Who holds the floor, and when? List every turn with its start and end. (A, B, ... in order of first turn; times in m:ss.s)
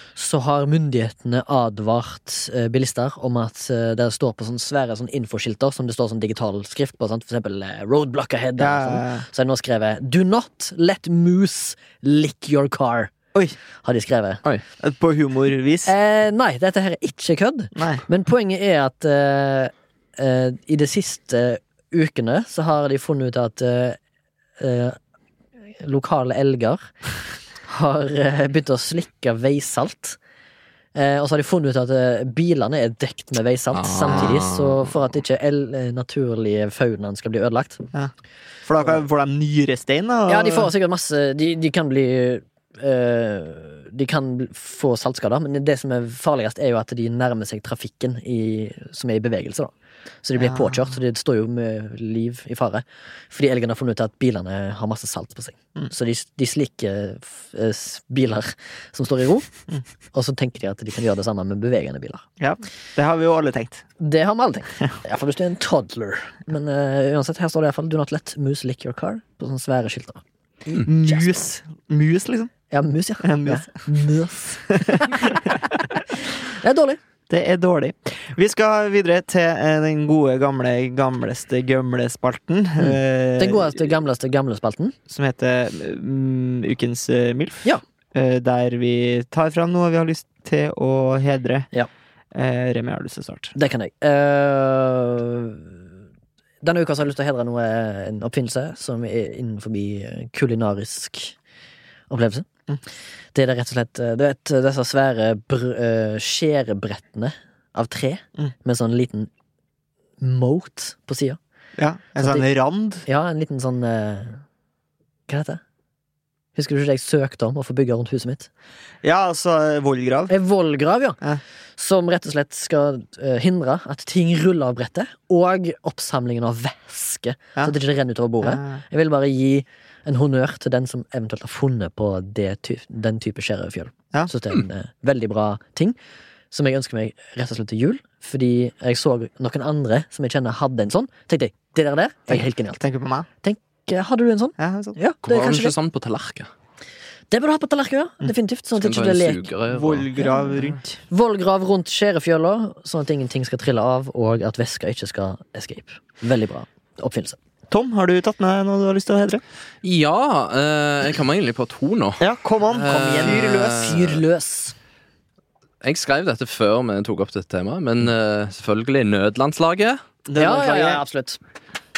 0:00.2-0:13.1 A
0:08.6-0:09.2 B
0:13.8-0:14.4 A
0:14.8-0:15.9 B
0:15.8-0:24.0 A
0:17.8-0:18.0 B
0:24.6-0:25.0 A
0:25.8-0:27.0 A
0:27.6-0:30.2 A
0:30.9-0:37.8 A
0:33.7-0:34.9 C
0:38.6-0:40.7 B
0:40.3-0:59.5 A
0:50.4-0:50.9 B
1:00.1-1:02.2 A
1:02.4-1:03.8 B
1:04.0-1:10.2 A
1:10.7-1:11.4 A
1:10.7-1:12.5 B
1:12.7-1:15.4 A
1:13.2-1:13.7 B
1:14.7-1:15.6 B
1:16.3-1:17.0 A
1:17.3-1:23.8 B
1:22.8-1:25.0 A
1:25.1-1:31.7 B
1:32.3-1:33.5 B
1:33.5-1:35.8 A
1:36.6-1:41.4 A
1:42.1-1:42.5 A
1:43.3-1:49.3 A
1:50.2-1:51.4 A
1:51.8-1:53.0 B
1:53.0-1:54.4 A
1:55.3-1:55.6 A
1:56.5-1:58.5 A
1:59.0-2:00.3 B
2:00.3-2:01.2 A
2:01.8-2:16.0 A
2:08.4-2:08.8 B
2:16.5-2:22.8 A
2:22.3-2:23.3 B
2:23.4-2:25.7 A
2:24.6-2:25.0 B
2:25.2-2:26.5 C
2:27.3-2:29.5 A
2:28.8-2:30.1 C
2:29.7-2:31.0 B
2:30.2-2:30.4 A
2:31.1-2:37.4 A
2:37.7-2:39.4 B
2:39.8-2:44.1 C
2:42.2-2:44.2 B
2:42.8-2:44.7 A
2:45.8-2:50.0 C
2:50.2-2:51.0 B
2:50.4-2:51.4 A